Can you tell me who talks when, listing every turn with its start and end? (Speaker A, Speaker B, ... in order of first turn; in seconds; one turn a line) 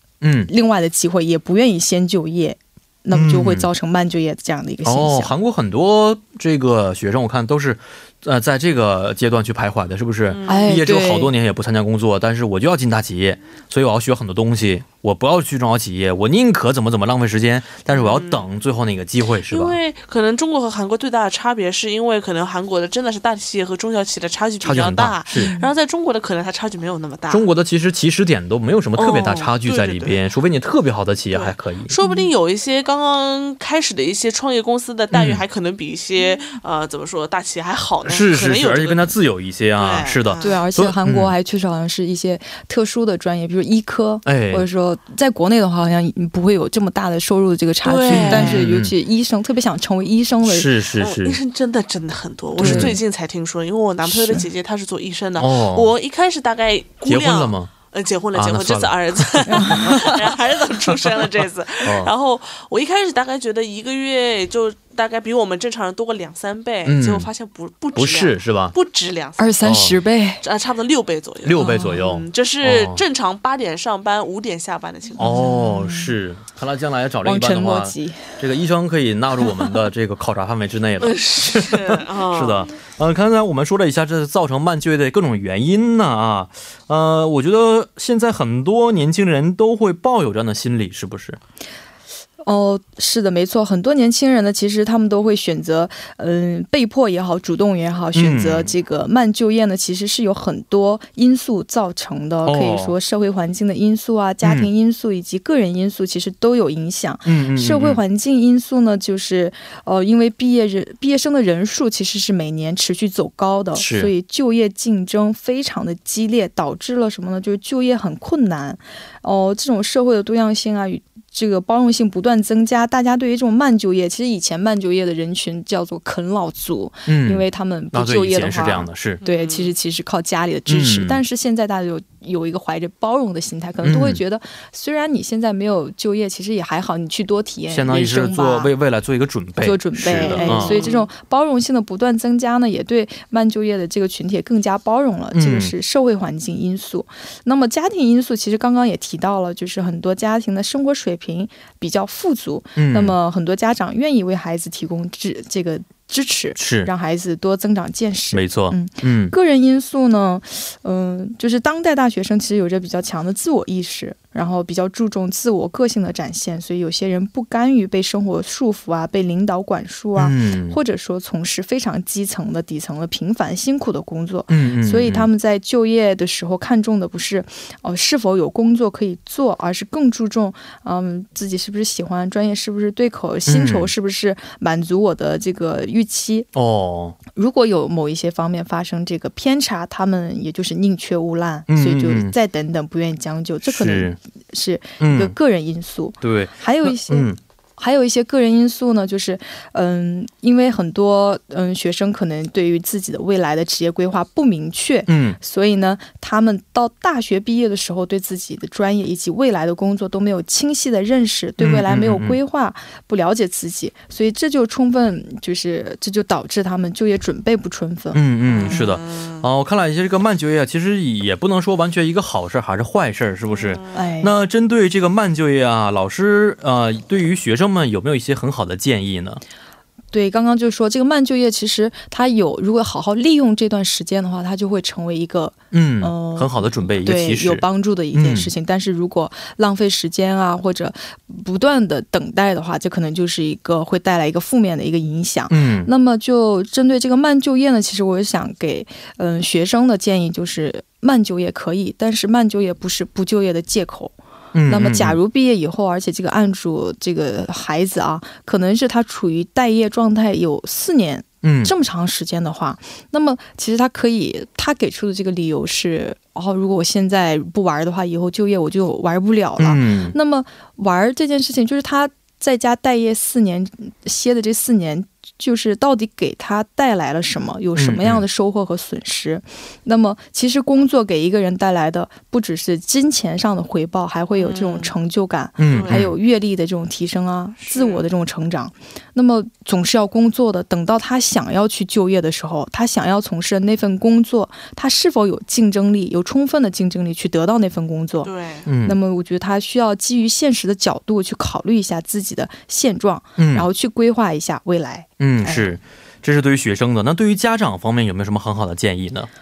Speaker A: 0.2-0.5
Speaker B: 0.5-5.3
Speaker A: 3.1-3.7
Speaker A: 4.8-19.8
Speaker C: 10.3-10.7
Speaker B: 10.5-11.3
Speaker C: 17.9-18.5
Speaker C: 19.5-27.5
Speaker A: 24.6-25.5
Speaker B: 25.3-25.7
Speaker A: 27.3-31.9
Speaker C: 29.0-30.2
Speaker C: 31.3-39.1
Speaker B: 32.0-32.3
Speaker A: 35.1-35.4
Speaker A: 38.0-41.3
Speaker C: 39.8-40.6
Speaker B: 40.4-50.7
Speaker A: 44.2-44.7
Speaker C: 47.8-48.6
Speaker A: 48.1-48.9
Speaker A: 50.5-51.4
Speaker C: 51.0-69.7
Speaker B: 52.6-53.0
Speaker A: 52.6-53.0
Speaker B: 54.0-54.5
Speaker A: 55.4-55.9
Speaker A: 57.0-57.7
Speaker A: 58.3-60.0
Speaker B: 59.5-60.2
Speaker A: 61.8-62.1
Speaker A: 66.8-67.3
Speaker A: 68.0-68.8
Speaker B: 69.4-70.4
Speaker A: 69.6-70.0
Speaker C: 70.4-75.4
Speaker A: 71.4-73.0
Speaker B: 71.6-72.0
Speaker A: 75.2-91.4
Speaker B: 75.2-76.2
Speaker B: 77.2-78.4
Speaker C: 81.0-82.7
Speaker B: 92.5-138.7
Speaker A: 98.2-98.7
Speaker A: 102.5-103.0
Speaker A: 104.4-104.7
Speaker A: 107.2-108.0
Speaker A: 113.8-114.1
Speaker A: 127.1-129.2
Speaker C: 129.2-129.7
Speaker A: 130.7-131.2
Speaker A: 133.8-134.2
Speaker A: 137.7-140.8
Speaker B: 139.6-186.5
Speaker C: 140.1-141.1
Speaker A: 145.3-145.7
Speaker A: 152.8-153.2
Speaker A: 156.6-156.9
Speaker A: 158.3-159.3
Speaker A: 170.2-170.8
Speaker A: 174.5-175.3
Speaker A: 183.5-183.9
Speaker A: 186.5-187.2
Speaker B: 187.3-218.2
Speaker A: 191.7-192.3
Speaker A: 193.6-194.2
Speaker A: 195.0-195.3
Speaker A: 196.2-197.4
Speaker A: 205.1-205.4
Speaker A: 211.6-212.4
Speaker A: 218.1-229.4
Speaker C: 218.5-219.5
Speaker C: 223.5-224.0
Speaker B: 223.9-224.3
Speaker B: 230.1-298.3
Speaker A: 235.7-238.5
Speaker A: 245.5-245.9
Speaker A: 254.5-255.2
Speaker A: 261.4-261.7
Speaker A: 269.6-270.2
Speaker A: 277.8-278.2
Speaker C: 284.4-284.9
Speaker A: 285.6-286.1
Speaker C: 285.7-286.1
Speaker C: 287.6-288.0
Speaker C: 298.2-298.7
Speaker A: 298.7-299.0
Speaker B: 298.8-305.8
Speaker A: 303.4-303.7
Speaker A: 305.2-309.3